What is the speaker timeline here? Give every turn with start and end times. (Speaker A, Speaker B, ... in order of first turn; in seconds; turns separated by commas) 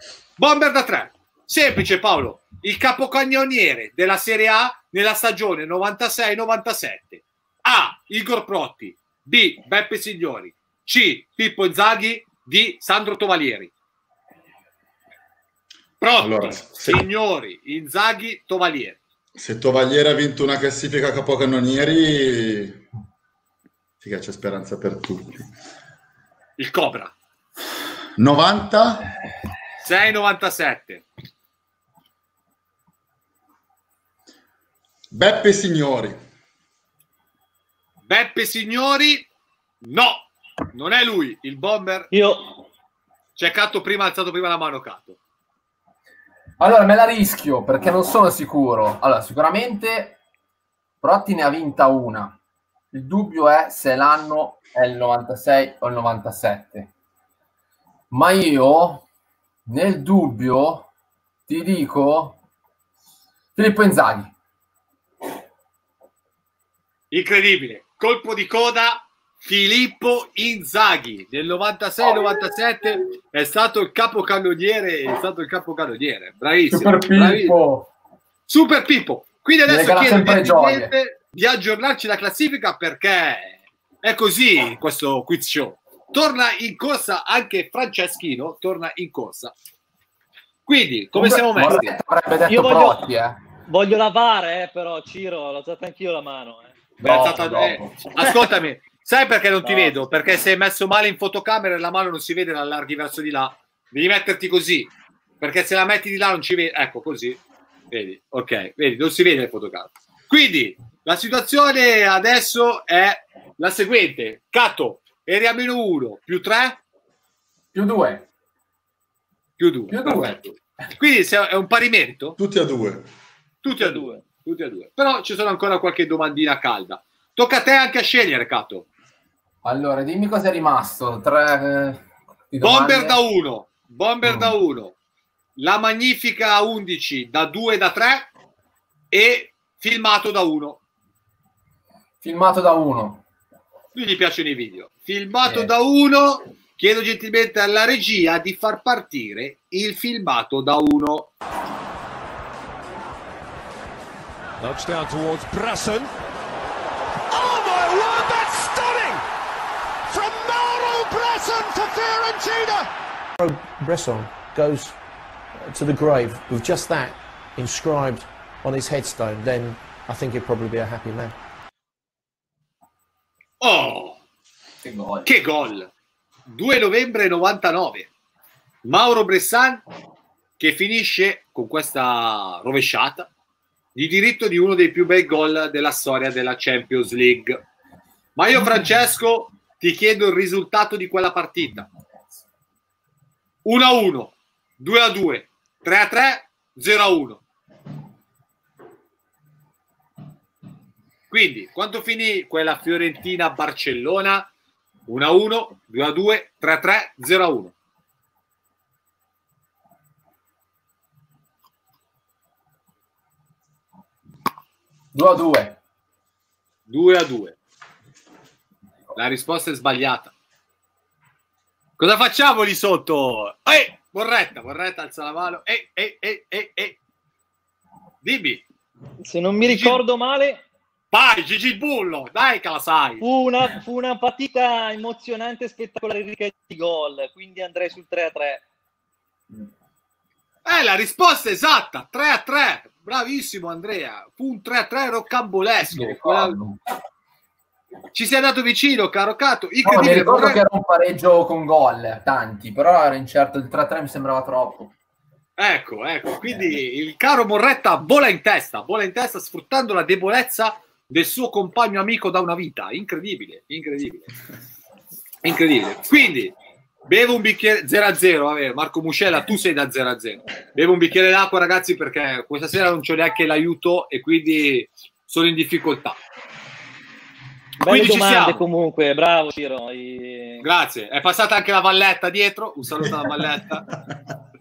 Speaker A: 0.4-13.7, Speaker A: 16.0-19.0, Speaker B: 16.2-17.0, Speaker B: 19.4-22.9, Speaker B: 24.0-25.5, Speaker A: 26.6-27.1, Speaker B: 28.2-29.1, Speaker A: 29.8-31.1, Speaker B: 35.1-36.2, Speaker A: 38.1-39.3, Speaker A: 39.8-42.1, Speaker C: 42.1-42.5, Speaker A: 43.4-45.2, Speaker D: 46.6-50.2, Speaker D: 51.0-52.4, Speaker D: 52.9-56.9, Speaker D: 58.1-59.0, Speaker D: 59.7-60.9, Speaker D: 61.5-62.4, Speaker D: 63.6-64.3, Speaker A: 67.1-77.6, Speaker D: 76.7-77.9, Speaker A: 78.5-89.5, Speaker D: 79.7-80.9, Speaker A: 90.7-92.0, Speaker D: 91.2-93.4, Speaker C: 92.5-93.1, Speaker C: 93.7-96.8, Speaker D: 97.0-98.4, Speaker A: 97.0-107.4, Speaker C: 99.6-100.1, Speaker A: 107.9-116.8, Speaker D: 117.7-118.3, Speaker A: 119.6-122.4, Speaker D: 119.9-120.4, Speaker B: 122.4-123.1, Speaker A: 123.6-128.9, Speaker C: 123.7-124.2, Speaker D: 129.6-133.2, Speaker A: 132.6-134.9, Speaker A: 135.6-138.3, Speaker A: 139.1-140.8, Speaker D: 142.2-143.2, Speaker A: 143.9-151.3, Speaker D: 145.4-145.7, Speaker E: 154.6-156.1, Speaker E: 157.3-159.2, Speaker E: 160.1-162.8, Speaker F: 163.4-165.0, Speaker F: 165.7-171.3, Speaker A: 173.6-174.2, Speaker D: 174.8-175.3, Speaker A: 175.3-175.9, Speaker A: 176.5-178.1, Speaker A: 178.8-179.8, Speaker A: 180.6-183.3, Speaker A: 183.9-187.6, Speaker A: 188.4-191.9, Speaker A: 193.7-197.4, Speaker A: 201.3-204.5, Speaker A: 205.1-207.7, Speaker D: 215.1-215.8, Speaker A: 216.9-217.6, Speaker A: 219.1-220.3, Speaker A: 222.0-227.0, Speaker A: 228.2-228.6, Speaker C: 229.2-230.6, Speaker A: 229.6-230.0, Speaker A: 231.1-233.2, Speaker C: 233.2-238.6, Speaker A: 240.7-246.6, Speaker D: 245.9-246.8, Speaker A: 248.1-250.6, Speaker D: 249.8-254.9, Speaker A: 255.6-264.3, Speaker A: 265.4-266.6, Speaker A: 267.1-276.2, Speaker C: 277.8-280.7, Speaker A: 277.9-278.6, Speaker A: 280.6-283.9, Speaker B: 283.0-283.4